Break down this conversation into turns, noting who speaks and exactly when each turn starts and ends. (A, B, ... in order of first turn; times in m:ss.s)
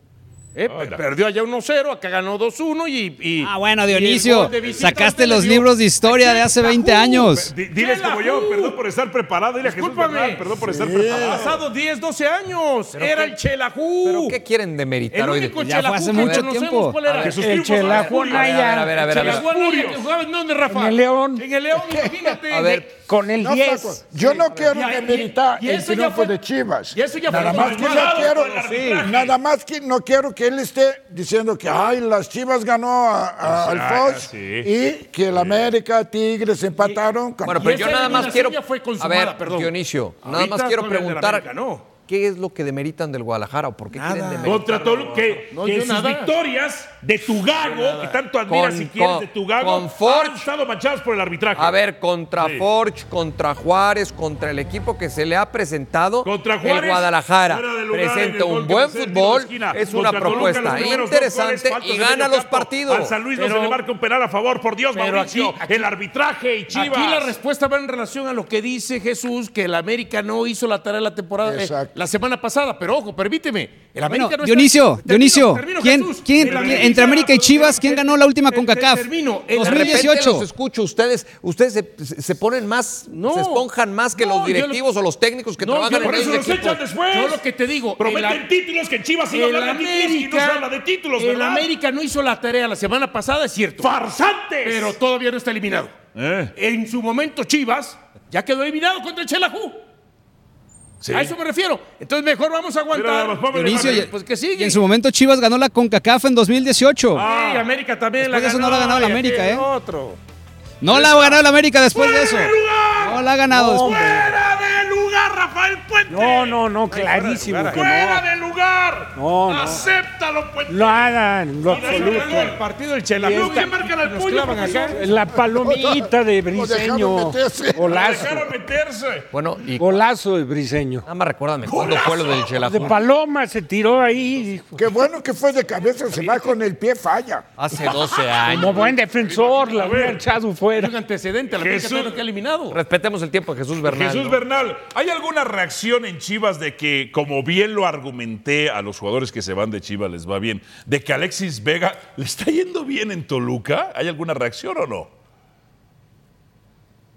0:00.6-0:08.8 A
0:00.7-0:01.0 B
0:03.4-0:07.5 C
0:07.2-0:11.6 B
0:09.6-0:10.5 A
0:10.6-0:11.5 D
0:11.1-0:14.4 A
0:14.0-0:16.5 E
0:15.1-0:17.5 A
0:15.6-0:17.0 C
0:17.2-0:20.0 B
0:17.2-0:19.4 F
0:17.8-0:19.5 E
0:18.4-0:22.9 A
0:20.7-0:21.5 F
0:22.5-0:22.9 E
0:22.9-0:24.2 F
0:23.4-0:38.1 D
0:24.6-0:26.3 A
0:26.9-0:29.0 A
0:27.3-0:29.4 B
0:33.4-0:34.7 B
0:35.3-0:35.7 B
0:36.8-0:41.9 A
0:37.4-0:41.5 E
0:42.0-0:45.1 E
0:43.9-0:46.3 A
0:44.4-0:51.8 B
0:47.5-0:48.2 A
0:48.4-0:50.5 E
0:51.5-1:03.2 E
0:52.4-0:52.6 B
0:56.2-1:07.3 B
1:00.1-1:01.0 A
1:03.3-1:03.8 A
1:04.9-1:05.9 A
1:06.7-1:20.2 A
1:11.4-1:11.9 D
1:14.1-1:20.4 C
1:16.4-1:16.7 B
1:19.5-1:26.8 E
1:23.1-1:24.8 A
1:25.6-1:28.4 A
1:25.9-1:27.4 B
1:28.0-1:31.7 B
1:29.3-1:33.9 A
1:33.8-1:35.0 B
1:34.6-1:35.9 A
1:36.1-1:36.5 B
1:36.6-1:39.8 A
1:41.0-1:41.3 B
1:41.1-1:44.8 A
1:42.9-1:44.1 B
1:43.5-1:47.2 C
1:47.1-1:50.2 A
1:47.2-1:47.7 B
1:48.2-1:49.6 C
1:50.8-1:54.1 C
1:50.9-1:51.4 A
1:51.9-1:56.6 B
1:53.5-1:54.3 F
1:56.1-1:58.2 F
1:56.2-1:57.9 A
1:57.7-2:01.1 B
1:59.1-1:59.8 F
2:00.7-2:02.6 F
2:01.6-2:02.6 B
2:01.7-2:05.0 A
2:03.2-2:05.0 B
2:03.2-2:03.7 F
2:04.7-2:08.5 F
2:05.6-2:08.2 D
2:07.8-2:09.3 B
2:09.3-2:10.0 E
2:09.8-2:11.0 F
2:11.0-2:13.0 E
2:11.6-2:12.6 B
2:12.6-2:14.9 F
2:14.8-2:17.4 D
2:17.6-2:19.0 E
2:18.4-2:21.0 F
2:19.2-2:20.2 B
2:20.7-2:22.8 A
2:21.6-2:22.2 B
2:22.7-2:24.4 E
2:23.8-2:35.1 B